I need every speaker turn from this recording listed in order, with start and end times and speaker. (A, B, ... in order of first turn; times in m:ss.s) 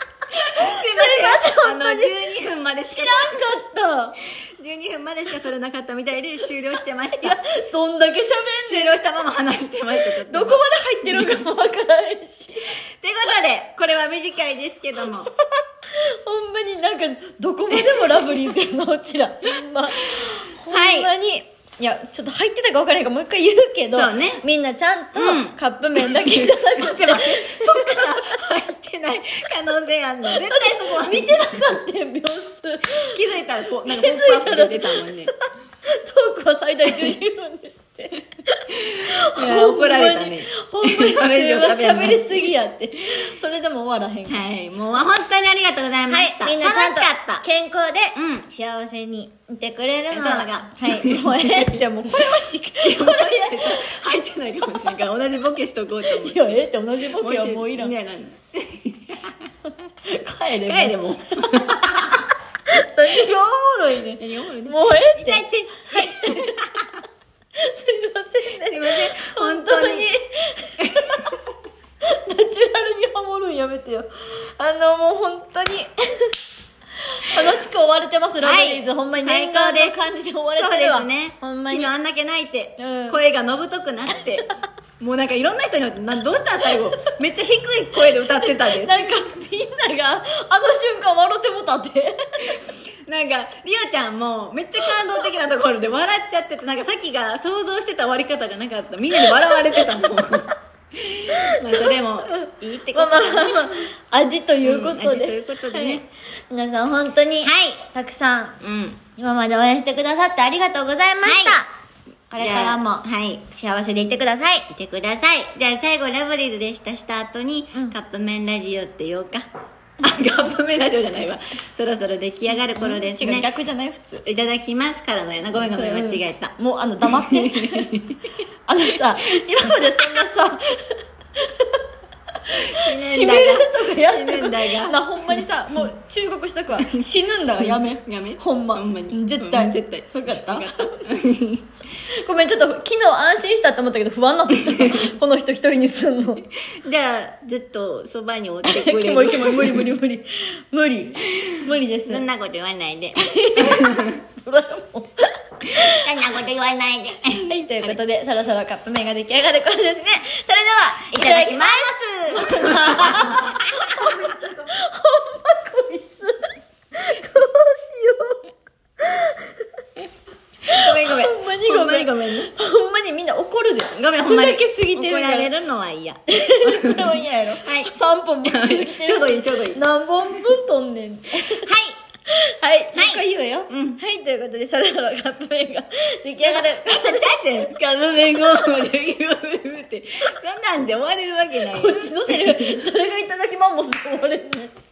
0:00.5-0:03.4 A
0:00.6-0:02.1 B
0:02.9-0:04.2 B
0:04.6-0:07.4 A
0:07.2-0:09.0 B
0:08.6-0:11.4 A
0:10.0-0:12.7 B
0:13.0-0:15.3 A
0:16.3-0:28.4 B
0:17.7-0:18.5 A
0:20.7-0:21.1 A
0:23.9-0:24.4 A
0:25.2-0:31.8 A
0:30.3-0:33.2 B
0:32.9-0:35.3 A
0:33.9-0:44.4 B
0:36.9-0:37.2 A
0:38.8-0:42.5 A
0:44.3-0:47.4 A
0:46.1-0:53.9 B
0:48.2-0:48.5 A
0:50.1-0:51.8 A
0:52.8-0:56.6 A
0:56.1-0:57.9 B
0:57.2-0:59.5 A
1:00.1-1:01.8 B
1:00.6-1:02.3 A
1:02.7-1:06.7 B
1:04.2-1:07.0 A
1:07.6-1:11.4 B
1:08.5-1:10.1 A
1:10.8-1:11.3 A
1:12.1-1:16.3 B
1:17.1-1:21.9 B
1:18.4-1:24.5 A
1:22.8-1:23.2 B
1:25.0-1:29.3 A
1:28.8-1:32.6 B
1:32.5-1:43.8 A
1:39.5-1:40.0 B
1:42.3-1:48.6 B
1:44.6-1:46.0 A
1:47.4-1:47.9 A
1:48.6-1:49.0 A
1:49.2-1:51.7 B
1:51.2-1:51.6 A
1:52.3-1:54.7 B
1:52.4-1:53.5 A
1:54.7-1:59.5 A
2:00.0-2:03.5 A
2:02.7-2:04.2 B
2:04.2-2:08.2 A
2:05.7-2:08.0 B
2:08.7-2:11.8 B
2:09.7-2:10.0 A
2:12.5-2:21.0 B
2:12.7-2:15.5 A
2:17.6-2:21.7 A
2:22.2-2:26.5 B
2:24.7-2:25.1 A
2:26.8-2:30.0 A
2:28.7-2:32.3 B
2:32.1-2:34.1 A
2:33.2-2:36.0 B
2:35.8-2:38.0 A
2:37.3-2:48.5 B
2:41.1-2:44.2 A
2:49.0-2:49.7 B
2:50.7-2:52.5 A
2:50.7-2:55.5 B
2:54.0-3:00.4 A
2:56.3-3:01.7 B
3:01.6-3:02.0 A
3:02.3-3:07.7 B
3:02.9-3:04.0 A
3:06.4-3:12.8 A
3:11.7-3:14.7 B